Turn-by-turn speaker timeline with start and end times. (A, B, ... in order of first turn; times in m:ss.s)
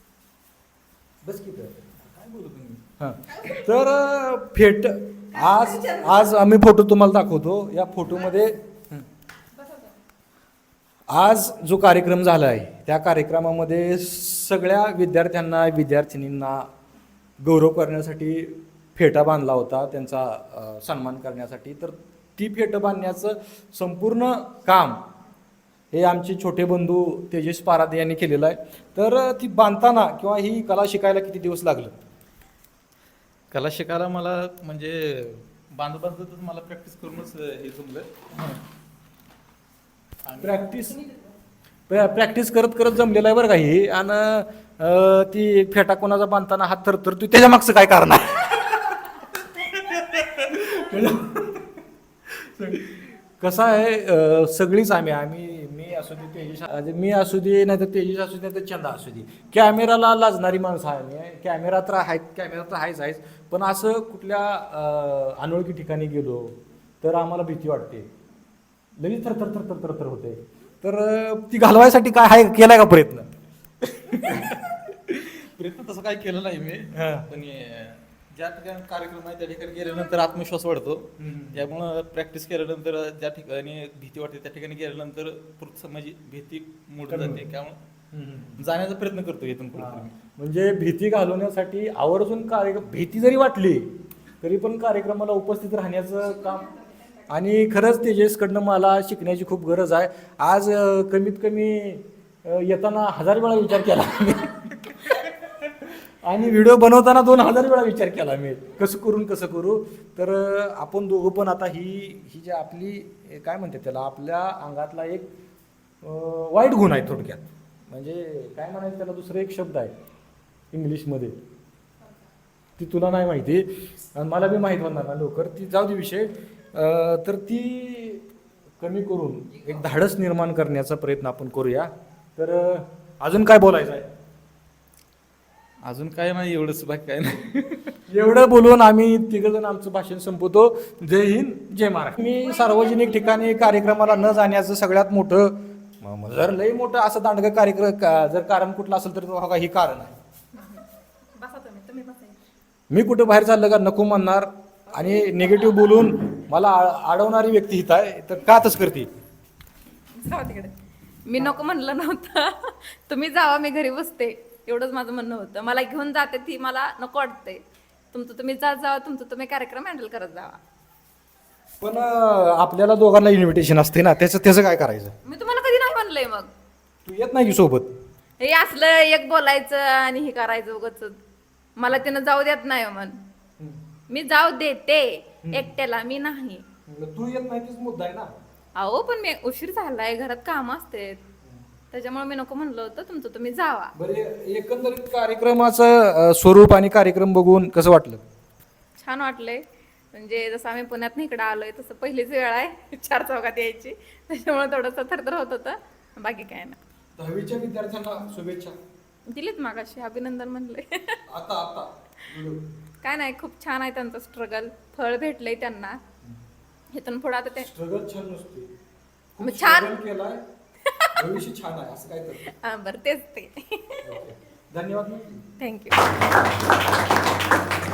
0:01.2-0:01.9 A
0:02.0-0:02.8 B
0:03.0-0:09.0 A
0:03.3-0:03.6 C
0:05.3-0:06.3 C
0:09.6-0:10.0 C
0:11.1-0:16.7 A
0:17.4-0:25.0 A
0:25.9-0:31.9 A
0:33.5-0:38.1 B
0:40.2-0:40.6 B
0:40.4-0:41.0 A
0:40.9-0:41.3 C
0:41.9-0:51.6 A
0:52.4-1:08.1 A
1:09.0-1:13.3 A
1:13.8-1:14.6 A
1:15.1-1:27.8 B
1:16.9-1:17.3 A
1:21.2-1:21.6 A
1:27.1-1:27.4 A
1:28.1-1:28.6 A
1:28.6-1:30.1 B
1:29.8-1:33.9 A
1:34.4-1:36.7 A
1:36.3-1:37.2 C
1:37.3-1:55.3 A
1:56.0-1:59.9 A
2:00.7-2:01.3 A
2:02.8-2:08.2 A
2:08.8-2:14.1 A
2:09.6-2:09.8 C
2:15.8-2:18.0 B
2:18.1-2:30.2 A
2:22.4-2:24.2 C
2:30.5-2:32.4 C
2:32.9-2:39.1 A
2:34.9-2:35.5 C
2:40.2-2:40.7 C
2:41.3-2:47.6 C
2:48.1-2:50.6 C
2:51.8-2:55.1 A
2:55.2-2:56.5 C
2:57.0-2:57.9 A
2:58.4-3:01.2 C
3:01.8-3:03.2 C
3:04.1-3:06.6 C
3:05.4-3:05.7 A
3:06.9-3:08.3 A
3:08.8-3:11.2 C
3:11.9-3:13.9 C
3:14.0-3:18.2 A
3:19.0-3:26.8 C
3:27.2-3:28.8 A
3:29.3-3:31.2 C
3:31.3-3:32.6 A
3:33.0-3:36.0 C
3:36.9-3:37.7 C
3:37.6-3:38.7 A
3:39.4-3:40.4 A
3:39.4-3:40.0 C
3:40.8-3:41.1 C
3:41.1-3:42.5 A
3:42.4-3:44.2 C
3:44.0-3:45.4 A
3:45.6-3:46.1 C